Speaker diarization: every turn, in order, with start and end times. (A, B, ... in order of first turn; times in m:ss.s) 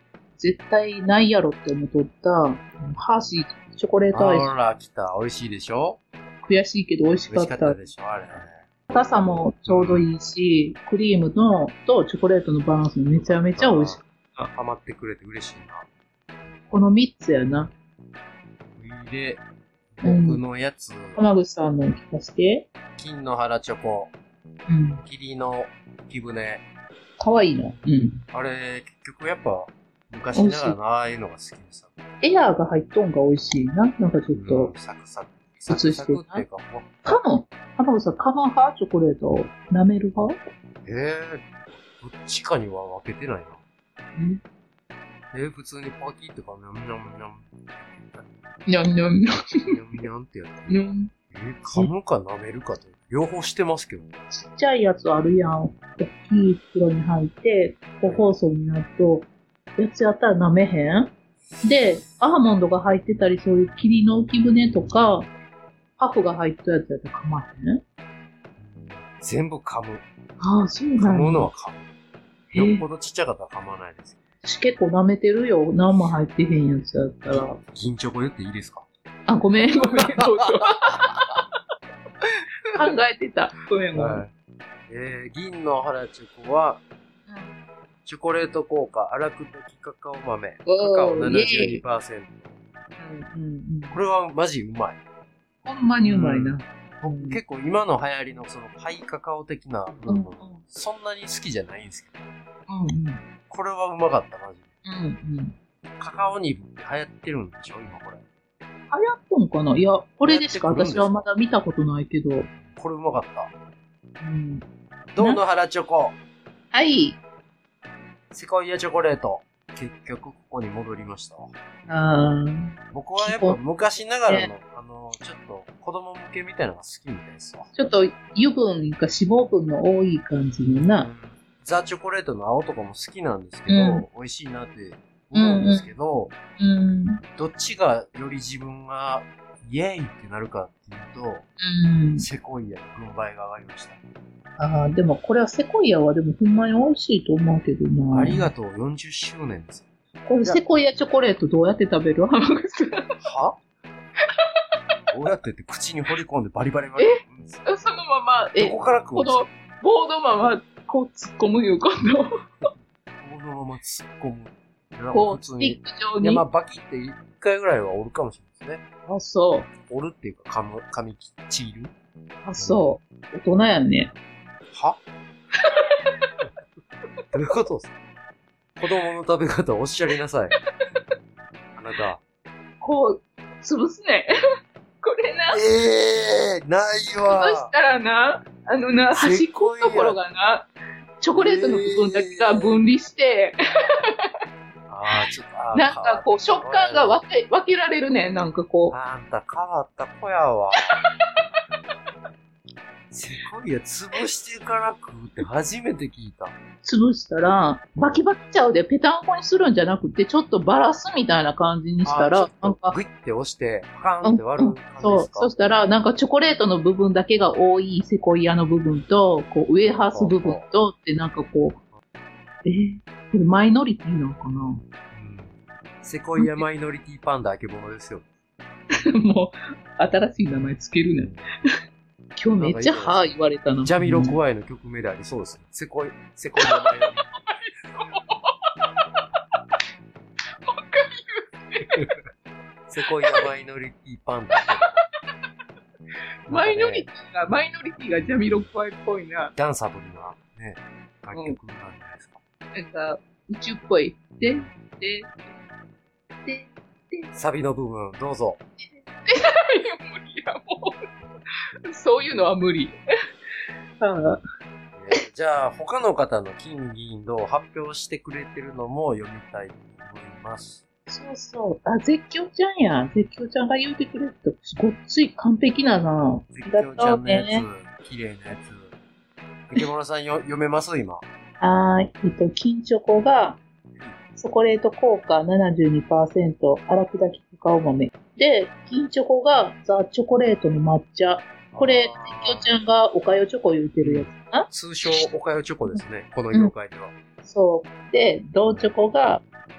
0:00.4-0:04.5 A
0:04.1-0:06.0 B
0:06.4-0:07.8 A
0:07.3-0:08.6 B
0:08.9-0:14.0 A
0:09.6-0:10.1 B
0:13.1-0:15.9 B
0:16.7-0:17.7 A
0:18.8-0:19.4 B
0:20.0-0:21.2 B
0:20.0-0:20.4 A
0:21.2-0:22.7 A
0:23.0-0:24.1 B
0:24.7-0:25.0 A
0:25.0-0:26.6 B
0:27.2-0:28.2 A
0:28.3-0:31.9 B
0:30.3-0:30.8 A
0:32.2-0:34.7 A
0:34.3-0:37.2 B
0:35.7-0:36.4 A
0:37.0-0:40.4 A
0:40.8-0:43.6 B
0:44.1-0:44.4 A
0:45.3-0:48.2 B
0:48.7-0:49.7 A
0:49.7-0:54.1 B
0:50.7-0:51.1 A
0:54.3-1:01.1 A
1:01.6-1:05.3 A
1:06.0-1:07.8 A
1:08.6-1:10.0 B
1:10.4-1:11.5 A
1:11.0-1:11.8 B
1:12.5-1:12.8 A
1:12.6-1:14.2 B
1:14.4-1:17.6 A
1:17.4-1:18.9 B
1:19.3-1:21.4 A
1:22.7-1:24.2 A
1:23.9-1:24.3 B
1:24.9-1:26.8 B
1:27.3-1:27.5 A
1:28.0-1:32.5 B
1:30.6-1:31.8 A
1:33.0-1:34.0 A
1:33.9-1:35.0 B
1:35.6-1:37.4 A
1:36.0-1:36.6 B
1:37.1-1:42.3 B
1:40.1-1:40.6 A
1:42.7-1:43.2 A
1:43.5-1:44.7 B
1:44.8-1:45.6 A
1:46.0-1:48.2 B
1:48.9-1:52.5 A
1:50.2-1:51.2 B
1:52.6-1:53.5 B
1:54.2-1:54.6 A
1:55.1-1:56.2 B
1:56.7-1:57.1 A
1:58.3-2:01.5 B
2:01.9-2:02.6 A
2:02.9-2:07.7 B
2:03.2-2:03.6 A
2:07.7-2:11.1 A
2:11.0-2:16.3 B
2:13.7-2:14.0 A
2:15.3-2:15.9 A
2:16.6-2:17.2 A
2:17.4-2:21.5 B
2:21.6-2:22.3 A
2:22.2-2:24.0 B
2:24.6-2:28.5 A
2:28.1-2:29.9 B
2:30.2-2:33.0 A
2:33.2-2:33.6 B
2:35.1-2:37.7 B
2:37.0-2:42.3 A
2:38.6-2:39.4 B
2:43.2-2:48.8 B
2:45.1-2:46.4 A
2:49.1-2:49.7 A
2:49.8-2:51.9 B
2:52.4-2:54.1 A
2:52.6-2:53.0 B
2:54.7-2:55.0 B
2:55.6-2:56.0 A
2:57.3-2:57.9 B
2:58.8-3:00.6 B
3:01.8-3:02.2 B
3:02.8-3:04.3 A
3:05.0-3:05.6 A
3:05.5-3:07.7 B
3:07.2-3:10.7 A
3:09.1-3:10.2 B
3:11.2-3:13.6 A
3:11.3-3:12.8 B
3:14.9-3:17.2 B
3:15.7-3:18.9 A
3:18.9-3:21.0 B
3:23.1-3:26.6 B
3:26.8-3:33.0 A
3:32.0-3:35.5 B
3:34.2-3:41.8 A
3:40.1-3:40.7 B
3:42.6-3:44.8 A
3:45.1-3:48.3 B
3:46.4-3:46.6 A
3:48.9-3:51.3 A
3:51.2-3:51.5 B
3:52.4-3:54.4 A
3:52.6-3:53.3 B
3:53.8-3:57.2 B
3:56.6-3:58.6 A
4:00.7-4:02.1 A
4:02.9-4:05.0 B
4:06.5-4:09.5 A
4:06.5-4:07.1 B
4:09.6-4:12.4 B
4:11.3-4:11.6 A
4:12.7-4:15.4 A
4:14.4-4:14.7 B
4:16.4-4:17.3 A
4:17.3-4:18.6 B
4:18.9-4:21.0 A
4:21.9-4:23.0 A
4:24.0-4:24.4 A
4:24.9-4:30.8 B
4:31.1-4:37.6 A
4:36.5-4:38.9 B
4:39.7-4:41.2 B
4:41.6-4:43.6 A
4:44.4-4:55.2 A
4:51.7-4:52.7 B
4:54.0-4:57.1 B
4:55.9-4:56.7 A
4:57.4-4:59.4 A
4:58.7-4:58.9 B